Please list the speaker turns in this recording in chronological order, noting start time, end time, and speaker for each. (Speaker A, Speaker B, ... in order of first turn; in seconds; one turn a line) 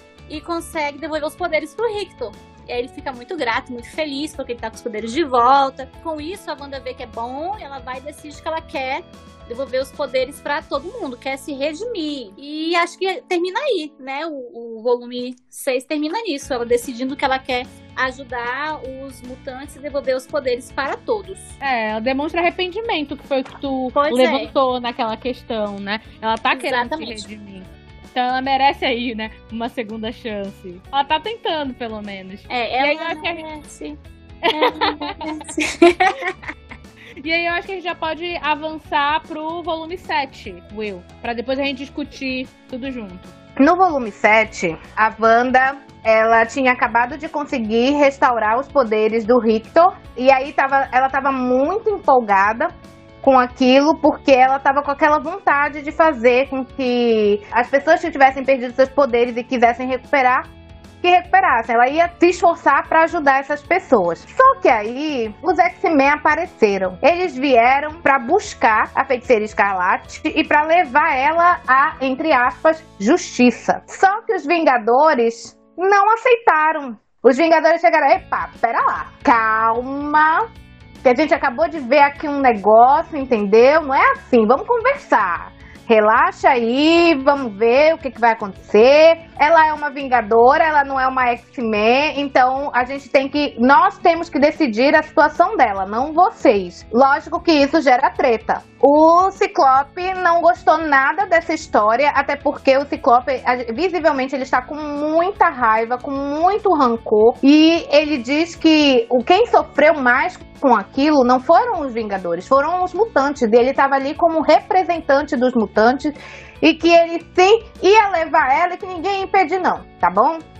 Speaker A: 0.3-21.6
Speaker B: 21.6-33.4
Speaker A: 23.9-24.5
Speaker A: 26.5-27.2
Speaker A: 32.5-34.0
Speaker B: 34.4-35.2
Speaker A: 34.5-36.3
Speaker B: 37.2-43.3
Speaker C: 43.6-52.7
Speaker C: 53.2-60.5
Speaker C: 61.0-80.4
Speaker C: 81.0-120.4